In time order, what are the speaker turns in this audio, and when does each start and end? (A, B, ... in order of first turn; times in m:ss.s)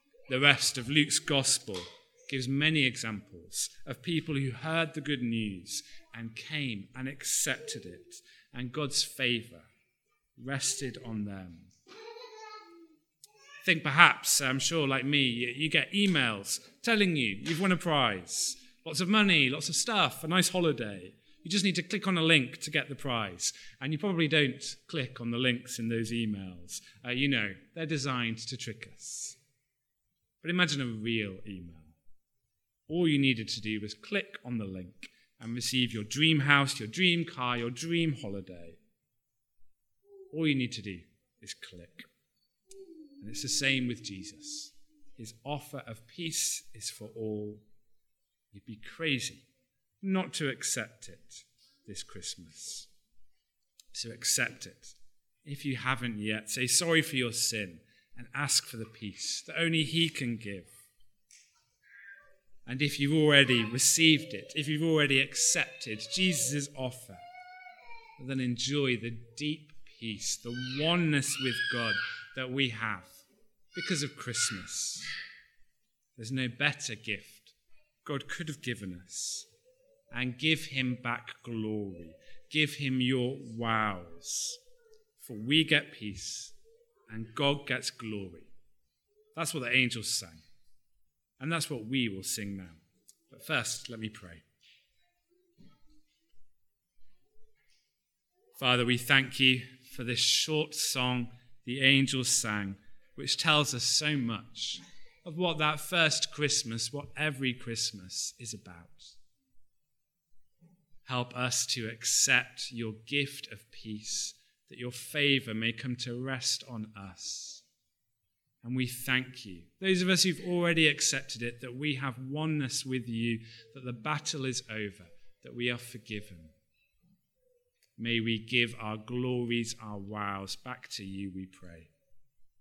0:00.3-0:09.7 A
0:10.4-0:11.7 A
0:13.6-0:29.4 A
0:30.4-0:32.0 A
0:32.9-0:38.8 A
0:40.3-0:42.1 A
0:43.2-0:47.6 A
0:48.5-0:49.5 A
0:50.0-0:52.9 A
0:53.9-1:00.7 A
1:02.7-1:07.2 A
1:08.2-1:13.2 A
1:13.7-1:15.1 A
1:16.2-1:19.5 A
1:20.1-1:24.6 A
1:25.2-1:26.6 A
1:27.1-1:28.5 A
1:29.3-1:30.4 A
1:31.4-1:34.4 A
1:38.6-1:49.2 A
1:51.0-1:57.6 A
1:58.6-2:06.5 A
2:08.0-2:11.9 A